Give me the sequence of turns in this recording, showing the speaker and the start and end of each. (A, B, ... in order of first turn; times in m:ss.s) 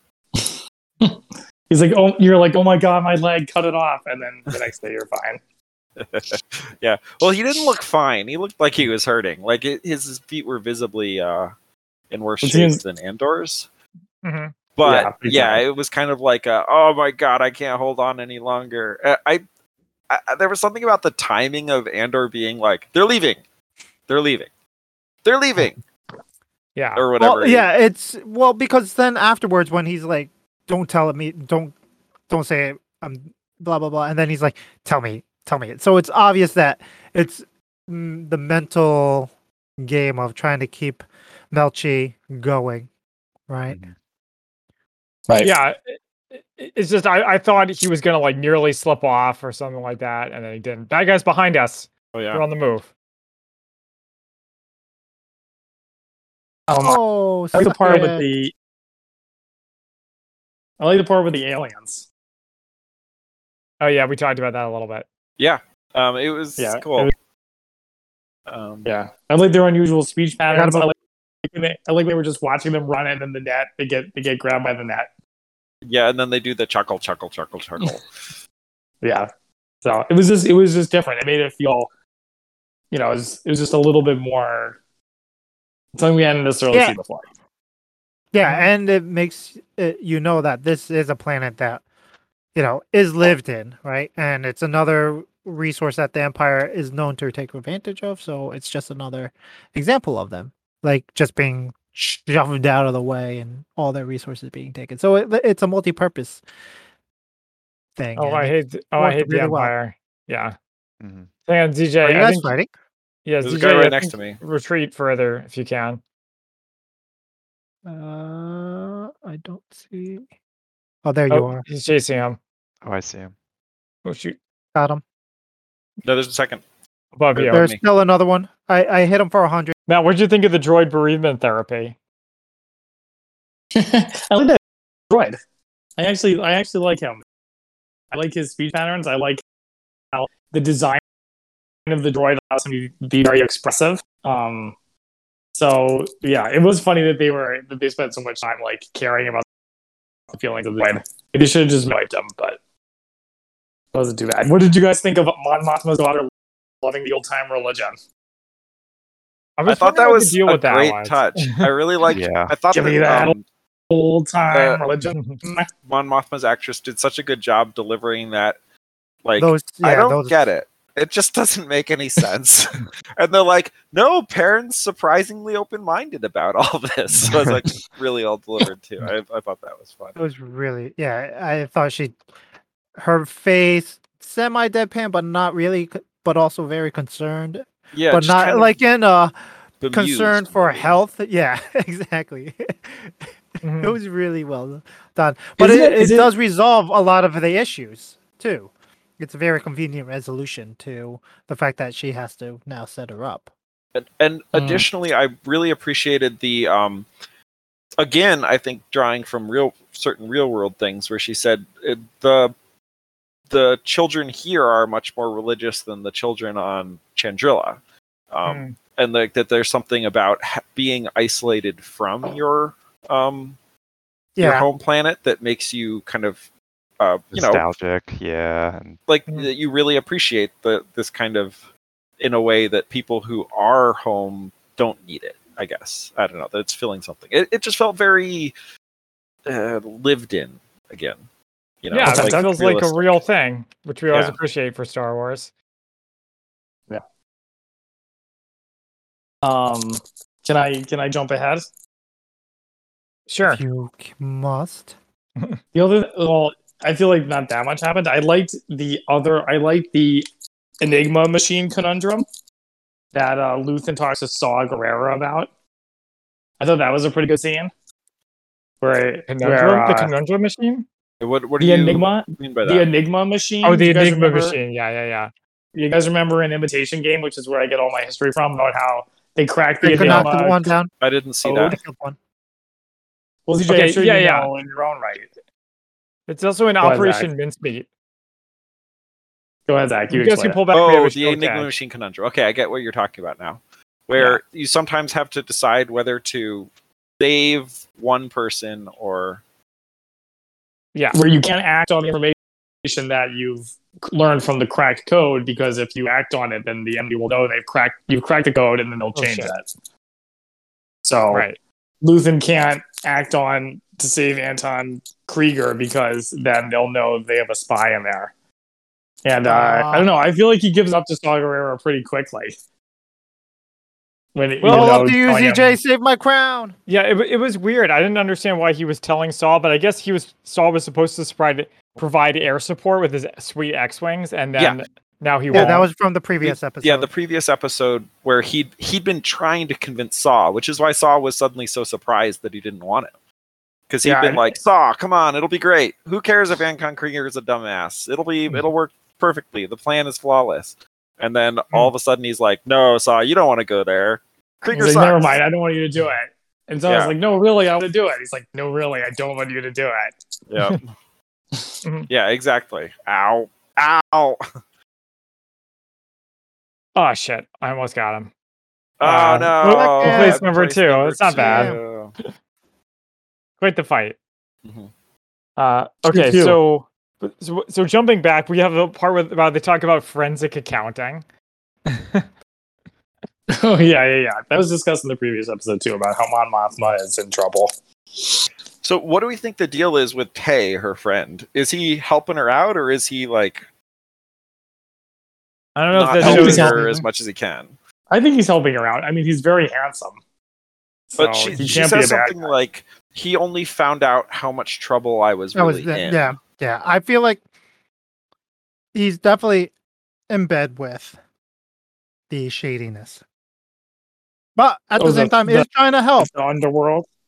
0:00.3-0:05.4 A
0:06.0-0:11.5 B
0:12.1-0:13.7 B
0:12.4-0:12.8 A
0:14.2-0:14.5 C
0:14.8-0:19.4 B
0:14.8-0:15.6 A
0:20.1-0:23.4 B
0:24.1-0:24.5 B
0:25.2-0:25.8 B
0:26.8-0:27.0 C
0:27.0-0:27.7 B
0:27.2-0:31.7 D
0:32.3-0:42.9 D
0:43.5-0:43.8 D
0:43.7-0:43.9 E
0:45.4-0:52.9 C
0:52.1-0:52.4 B
0:56.7-0:57.0 A
0:56.8-0:58.2 D
0:57.5-0:58.5 A
1:00.8-1:02.0 A
1:03.8-1:05.0 C
1:05.4-1:07.1 B
1:06.6-1:07.1 A
1:08.5-1:08.9 B
1:08.8-1:15.1 A
1:10.5-1:10.9 D
1:15.8-1:18.0 B
1:19.0-1:19.3 A
1:19.8-1:21.9 A
1:22.9-1:24.8 A
1:26.0-1:27.2 A
1:26.7-1:27.0 D
1:28.3-1:31.8 D
1:32.5-1:46.4 D
1:48.0-1:49.7 D
1:48.2-1:50.6 C
1:51.0-1:51.3 E
1:51.5-1:52.5 C
1:52.0-1:52.7 D
1:53.2-1:56.0 C
1:53.4-1:54.4 B
1:57.8-2:00.2 D
2:01.0-2:01.6 D
2:01.3-2:02.4 C
2:02.8-2:03.3 E
2:04.0-2:04.4 C
2:04.7-2:05.0 D
2:06.0-2:06.6 B
2:07.2-2:07.6 C
2:07.3-2:07.8 B
2:07.5-2:09.7 D
2:09.9-2:12.0 C
2:13.7-2:14.6 A
2:15.1-2:15.4 A
2:16.0-2:17.2 A
2:18.1-2:19.4 A
2:20.1-2:21.0 A
2:21.8-2:24.7 A
2:25.5-2:29.4 A
2:30.3-2:32.6 A
2:33.9-2:36.3 A
2:36.8-2:38.0 A
2:39.6-2:41.7 C
2:39.6-2:43.4 B
2:42.1-2:42.6 E
2:42.7-2:43.3 A
2:43.9-2:45.7 A
2:44.5-2:44.8 B
2:45.8-2:48.6 B
2:49.2-3:00.2 B
2:49.4-2:50.4 D
3:00.2-3:02.2 D
3:03.0-3:09.3 D
3:07.9-3:08.7 B
3:09.8-3:10.8 B
3:09.9-3:13.3 D
3:13.6-3:14.0 C
3:13.8-3:23.5 D
3:15.6-3:16.3 A
3:23.9-3:27.1 B
3:24.5-3:24.8 A
3:28.0-3:32.5 B
3:33.5-3:37.8 B
3:38.3-3:43.6 B
3:38.4-3:38.8 C
3:44.4-3:44.6 D
3:44.4-3:46.4 B
3:47.0-3:47.6 B
3:47.3-3:49.0 E
3:49.1-3:51.6 B
3:52.2-3:58.5 B
3:59.4-4:01.2 B
4:01.8-4:03.2 B
4:01.9-4:05.5 C
4:02.0-4:02.4 A
4:09.4-4:11.6 A
4:13.3-4:13.6 C
4:13.4-4:14.9 D
4:15.7-4:20.3 A
4:20.8-4:22.2 A
4:23.1-4:25.5 A
4:26.6-4:27.7 A
4:28.8-4:30.1 A
4:29.3-4:30.8 C
4:31.2-4:32.9 B
4:31.6-4:34.6 A
4:33.6-4:35.3 C
4:35.7-4:40.7 A
4:39.8-4:40.9 D
4:40.0-4:40.3 C
4:41.0-4:41.8 B
4:41.4-4:41.8 A
4:41.6-4:42.2 D
4:43.5-4:45.3 A
4:43.7-4:44.5 C
4:46.3-4:47.9 C
4:46.8-4:47.3 A
4:49.7-4:50.6 A
4:50.1-4:51.7 C
4:50.7-4:59.4 B
5:01.1-5:09.7 A
5:09.2-5:09.5 C
5:11.0-5:11.4 A
5:11.3-5:11.6 C
5:12.0-5:18.3 A
5:19.2-5:22.5 A
5:19.4-5:20.1 D
5:24.3-5:25.7 A
5:24.6-5:25.0 C
5:24.7-5:26.7 D
5:26.9-5:35.8 C
5:35.5-5:37.1 D
5:35.5-5:35.8 B
5:36.4-5:43.1 B
5:43.9-5:55.4 B
5:44.0-5:44.4 D
5:54.7-6:00.1 A
5:56.8-5:57.1 B
6:00.5-6:00.8 B
6:01.8-6:02.1 C
6:02.1-6:04.4 B
6:06.9-6:08.3 C
6:09.0-6:12.1 B
6:09.0-6:11.7 C
6:09.6-6:10.4 D
6:11.4-6:11.8 D
6:13.6-6:14.2 C
6:14.6-6:14.9 B
6:15.6-6:21.2 C
6:16.1-6:16.6 A
6:21.9-6:22.2 C
6:23.5-6:28.4 A
6:28.8-6:33.6 B
6:35.8-6:36.8 C
6:35.9-6:37.7 B
6:36.2-6:36.8 A
6:36.3-6:37.0 D
6:38.1-6:40.2 A
6:41.1-6:42.5 A
6:41.2-6:41.6 C
6:41.2-6:46.3 B
6:45.5-6:47.4 D
6:48.9-6:49.7 D
6:50.3-6:51.2 D
6:52.3-6:53.2 D
6:54.6-6:56.3 D
6:55.0-6:55.6 A
6:56.2-6:57.1 A